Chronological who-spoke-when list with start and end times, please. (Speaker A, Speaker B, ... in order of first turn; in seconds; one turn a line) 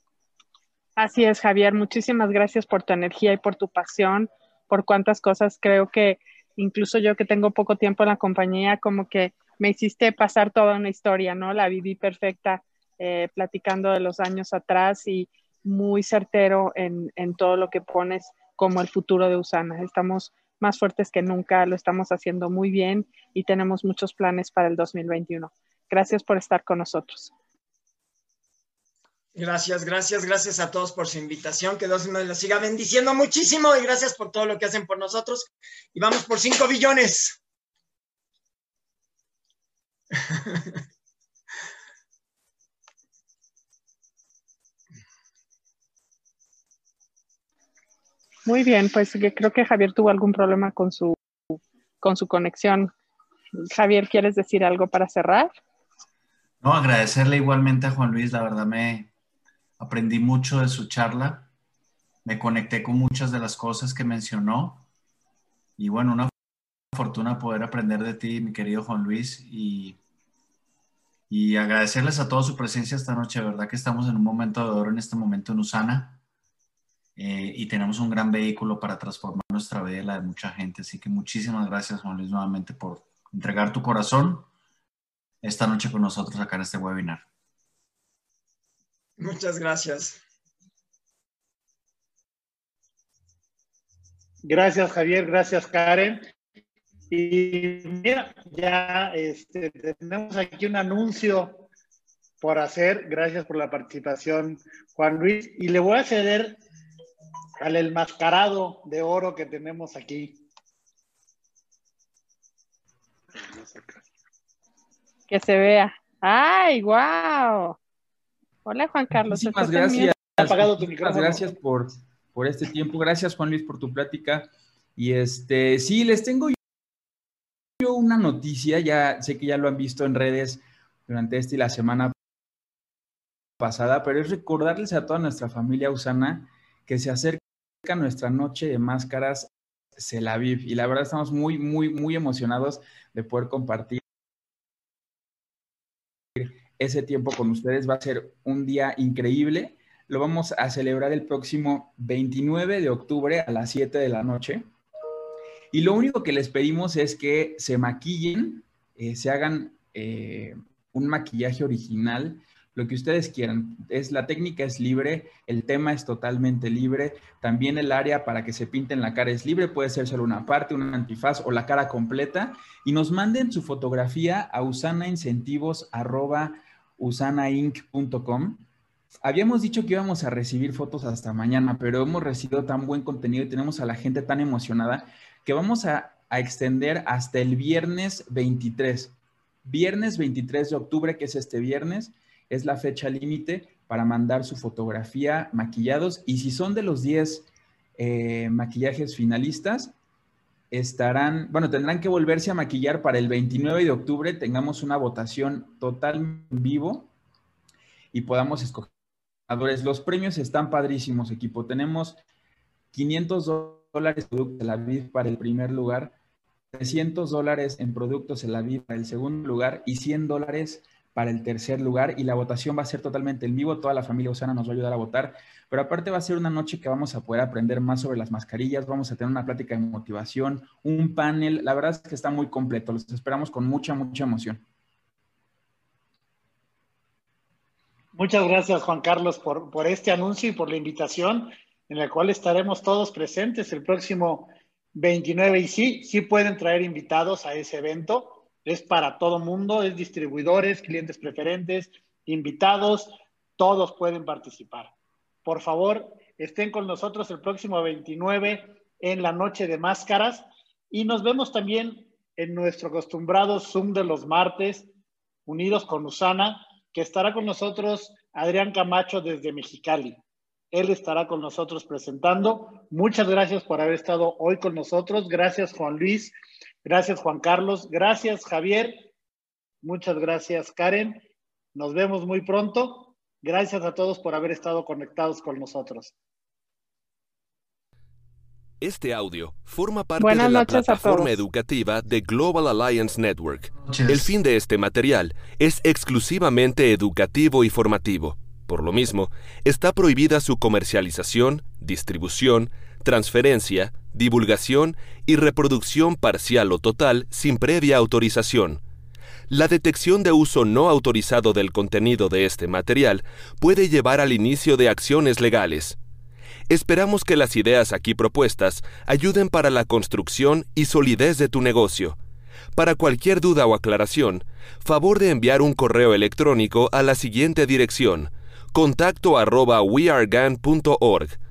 Speaker A: 1.0-27.3
Speaker B: 29.3-37.4
Speaker B: 40.2-40.8
Speaker A: 48.5-52.9
Speaker A: 53.6-55.5
Speaker C: 56.6-59.1
Speaker C: 59.8-61.5
Speaker C: 62.2-64.8
Speaker C: 65.8-66.3
Speaker C: 66.9-70.0
Speaker C: 71.3-76.2
Speaker C: 77.2-84.5
Speaker C: 85.4-87.2
Speaker B: 89.2-90.2
Speaker D: 94.4-96.2
Speaker D: 97.1-101.7
Speaker D: 102.4-106.6
Speaker D: 107.6-110.4
Speaker D: 113.4-114.0
Speaker A: 115.3-117.8
Speaker A: 118.6-120.1
Speaker E: 119.3-126.5
Speaker D: 120.4-121.5
Speaker E: 127.8-132.1
Speaker E: 133.6-144.0
Speaker E: 146.3-154.7
Speaker E: 155.7-178.6
Speaker E: 179.2-199.9
Speaker E: 200.7-207.1
Speaker E: 208.1-208.9
Speaker E: 209.5-212.2
Speaker E: 212.9-216.2
Speaker E: 216.7-234.6
Speaker D: 238.1-254.9
Speaker D: 255.4-264.9
Speaker D: 265.5-270.2
Speaker D: 270.7-276.3
Speaker D: 276.8-279.1
Speaker D: 279.8-281.2
Speaker D: 281.7-286.1
Speaker F: 288.8-308.8
Speaker A: 290.2-291.3
Speaker C: 293.9-294.3
Speaker F: 309.5-316.0
Speaker F: 316.7-322.2
Speaker F: 322.7-331.4